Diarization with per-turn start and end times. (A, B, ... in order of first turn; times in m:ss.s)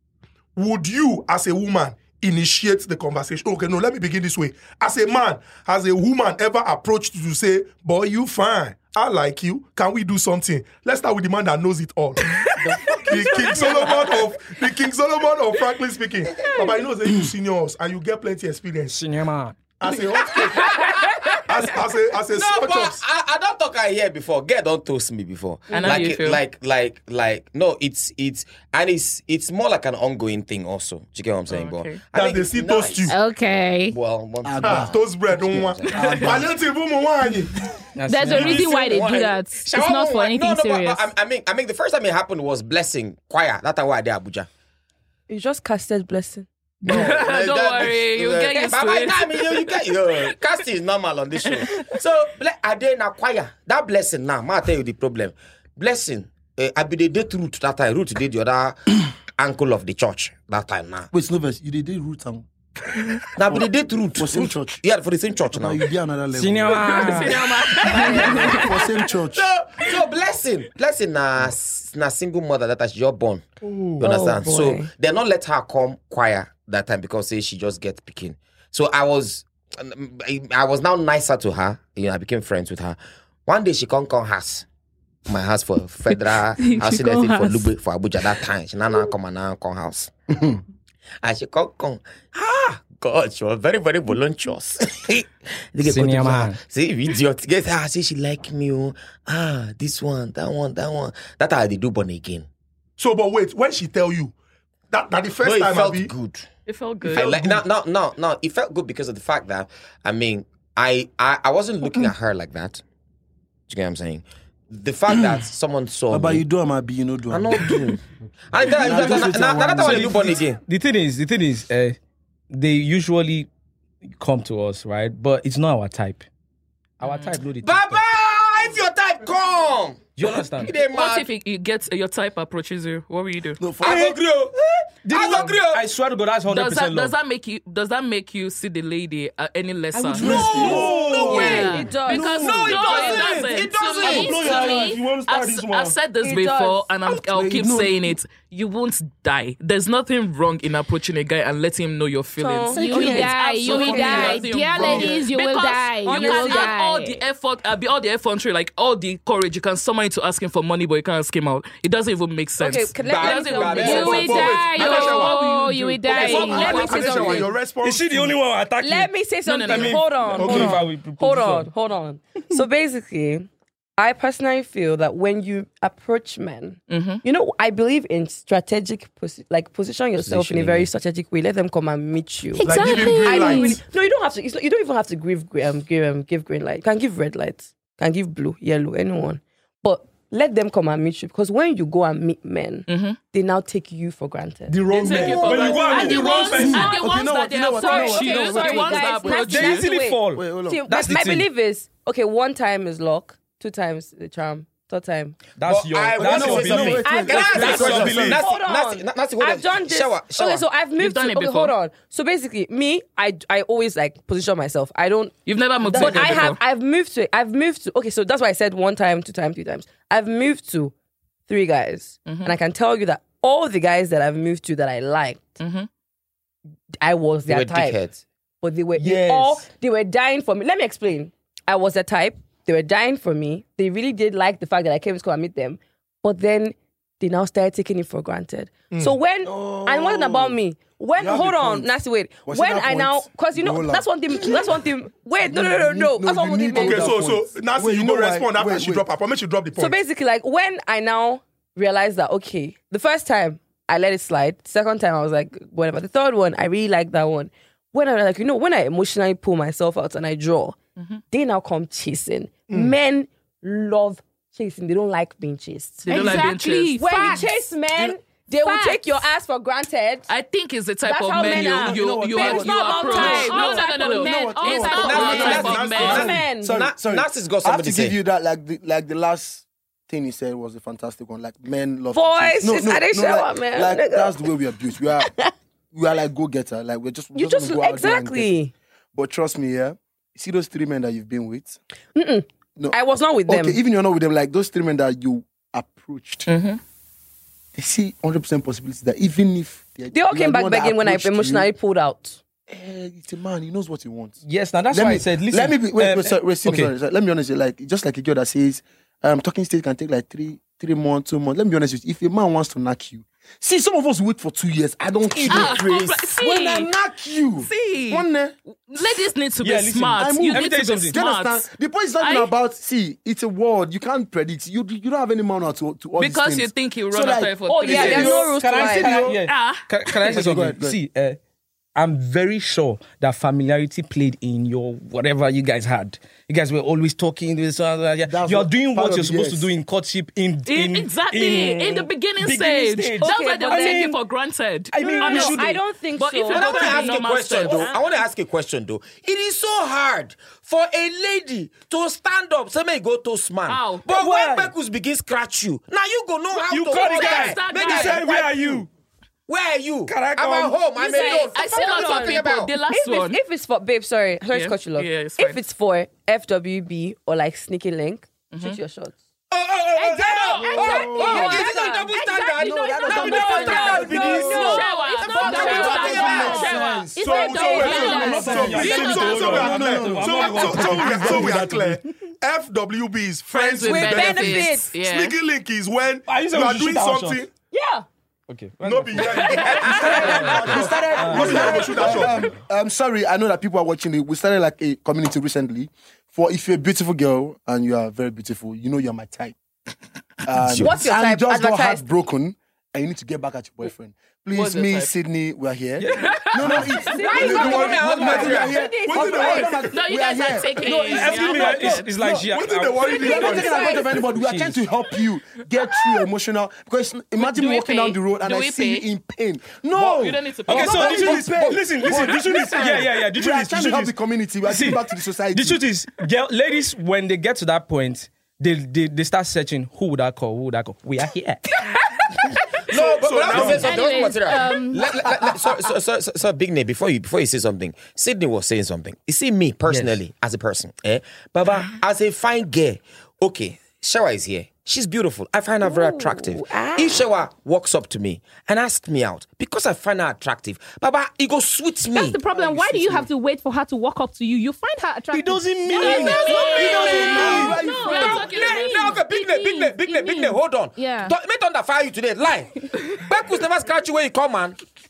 0:00.6-0:19.0 A
0:12.9-0:14.0 B
0:13.7-0:13.9 C
0:18.9-0:19.6 B
0:19.8-0:23.0 A
0:21.2-0:21.7 C
0:22.3-0:33.1 C
0:25.7-0:26.4 D
0:31.5-0:32.0 D
0:32.1-0:33.2 A
0:33.1-0:34.0 E
0:33.9-0:36.5 C
0:34.4-0:34.9 F
0:34.6-0:37.7 A
0:35.9-0:36.5 F
0:38.0-0:38.8 B
0:38.0-0:41.1 E
0:38.2-0:38.8 A
0:38.3-0:44.5 C
0:45.3-0:46.5 G
0:46.8-0:49.7 D
0:46.8-1:01.1 C
1:01.1-1:04.8 F
1:03.4-1:05.8 C
1:05.5-1:07.1 F
1:06.3-1:08.0 B
1:06.6-1:09.1 D
1:07.9-1:09.4 F
1:08.0-1:08.5 E
1:09.2-1:13.4 C
1:13.6-1:14.0 F
1:14.0-1:24.6 C
1:14.0-1:14.9 G
1:25.3-1:30.1 C
1:26.1-1:27.7 E
1:31.2-1:42.5 C
1:35.8-1:36.6 B
1:43.0-1:44.3 A
1:44.9-1:46.1 A
1:45.4-1:46.5 C
1:46.7-1:47.4 D
1:47.0-1:47.6 F
1:47.1-1:52.8 C
1:53.7-1:56.4 C
1:55.1-1:55.4 F
1:56.1-1:58.0 F
1:57.3-2:00.6 C
1:58.6-2:00.4 F
1:58.8-2:02.0 B
2:02.5-2:03.5 B
2:04.2-2:06.2 B
2:07.0-2:08.0 B
2:07.6-2:11.3 C
2:10.2-2:10.7 B
2:10.9-2:13.6 D
2:13.6-2:14.2 F
2:13.8-2:15.9 C
2:13.8-2:14.2 B
2:15.0-2:17.1 B
2:16.5-2:45.5 D
2:19.9-2:23.5 F
2:20.2-2:21.8 B
2:20.2-2:24.5 C
2:20.3-2:22.5 G
2:22.4-2:23.6 B
2:23.9-2:25.1 E
2:24.1-2:26.0 B
2:26.2-2:26.9 G
2:27.0-2:28.2 F
2:32.4-2:33.4 G
2:32.7-2:37.2 E
2:33.6-2:35.3 F
2:36.0-2:36.8 G
2:42.6-2:45.1 G
2:43.0-2:44.6 C
2:43.7-2:47.4 E
2:43.9-2:48.4 A
2:46.1-2:46.7 D
2:46.1-2:47.5 G
2:47.8-2:51.7 B
2:48.8-3:14.8 G
2:49.4-2:50.8 D
2:50.4-2:50.8 A
2:56.9-2:57.2 D
3:00.2-3:00.9 C
3:02.5-3:03.8 E
3:02.6-3:03.8 A
3:12.9-3:13.2 D
3:14.7-3:16.9 B
3:14.9-3:19.6 F
3:14.9-3:19.9 D
3:15.5-3:17.1 E
3:17.8-3:25.4 G
3:19.4-3:21.5 B
3:20.3-3:20.8 F
3:25.6-3:28.4 B
3:25.6-3:30.6 C
3:26.2-3:28.4 F
3:26.9-3:40.9 G
3:31.0-3:31.7 D
3:35.4-3:36.6 D
3:35.9-3:36.4 F
3:41.5-3:45.5 G
3:42.3-3:42.5 D
3:45.6-3:45.9 D
3:47.0-3:48.0 G
3:47.4-3:48.2 C
3:48.6-4:07.3 G
3:49.0-3:49.7 B
3:58.9-3:59.2 A
3:59.4-4:00.6 F
4:01.1-4:01.9 F
4:02.4-4:04.8 F
4:05.4-4:09.1 F
4:06.7-4:10.0 A
4:09.7-4:20.8 G
4:21.3-4:26.5 G
4:26.0-4:27.6 E
4:26.0-4:27.4 D
4:27.0-4:30.3 G
4:28.6-4:29.1 E
4:30.3-4:36.3 D
4:31.0-4:34.0 G
4:31.3-4:45.3 F
4:32.8-4:36.1 E
4:35.0-4:38.2 C
4:35.2-4:36.4 A
4:36.0-4:36.7 G
4:42.1-4:44.4 G
4:45.2-4:45.5 G
4:45.9-4:48.5 F
4:47.3-4:48.7 G
4:49.1-4:51.8 F
4:52.1-4:53.8 G
4:53.5-4:56.5 F
4:56.5-4:56.8 D
4:57.7-5:01.7 F
5:00.1-5:02.4 G
5:02.7-5:18.5 F
5:04.4-5:06.9 B
5:15.4-5:15.9 C
5:15.4-5:16.9 D
5:17.6-5:18.3 D
5:18.9-5:21.7 D
5:19.6-5:21.2 B
5:20.1-5:29.4 F
5:22.2-5:22.5 D
5:26.2-5:28.5 D
5:27.7-5:29.3 G
5:27.9-5:31.4 B
5:29.4-5:30.3 D
5:30.2-5:31.0 F
5:32.0-5:44.2 B
5:38.3-5:39.7 F
5:40.6-5:47.9 D
5:43.2-5:44.1 G
5:44.9-5:45.8 B
5:45.0-5:47.1 G
5:46.5-5:58.9 C
5:53.7-5:54.0 D
5:54.1-5:54.7 B
5:56.6-5:58.9 B
5:56.9-5:58.3 D
5:59.5-6:02.8 C
6:00.1-6:00.8 B
6:00.9-6:09.2 G
6:01.0-6:01.9 E
6:01.3-6:03.4 D
6:04.5-6:05.6 D
6:08.5-6:08.8 D
6:09.5-6:16.6 C
6:10.0-6:19.5 E
6:10.5-6:16.7 G
6:10.6-6:11.6 F
6:12.6-6:14.5 F
6:14.4-6:19.0 D
6:15.4-6:17.2 F
6:17.2-6:27.5 A
6:17.2-6:19.4 G
6:17.9-6:21.7 F
6:18.2-6:22.0 B
6:23.5-6:25.4 D
6:23.8-6:24.9 G
6:26.3-6:27.4 B
6:27.7-6:28.0 G
6:28.5-6:32.2 B
6:28.8-6:32.5 A
6:29.6-6:30.5 C
6:29.6-6:30.8 G
6:29.9-6:39.6 F
6:31.3-6:32.2 G
6:40.4-6:52.0 F
6:40.6-6:41.0 C
6:40.8-6:42.0 G
6:44.5-6:45.1 D
6:46.0-6:46.9 B
6:46.3-6:46.8 D
6:47.0-6:49.7 G
6:47.3-6:48.9 C
6:47.3-6:47.7 E
6:47.4-6:49.8 A
6:49.8-6:52.1 D
6:51.0-6:54.8 B
6:52.2-6:54.0 A
6:53.2-7:05.8 F
6:53.4-6:54.0 G
6:57.4-6:59.0 D
6:59.9-7:01.6 D
7:00.6-7:04.1 B
7:04.7-7:05.0 B
7:05.5-7:11.6 B
7:12.9-7:32.4 C
7:13.0-7:14.0 A
7:13.5-7:13.9 B
7:13.7-7:15.6 E
7:19.8-7:20.1 B
7:25.8-7:27.2 G
7:32.1-7:41.3 E
7:32.5-7:33.3 F
7:35.3-7:37.8 B
7:35.9-7:39.2 D
7:36.4-7:38.5 F
7:36.5-7:37.3 C
7:38.1-7:44.8 C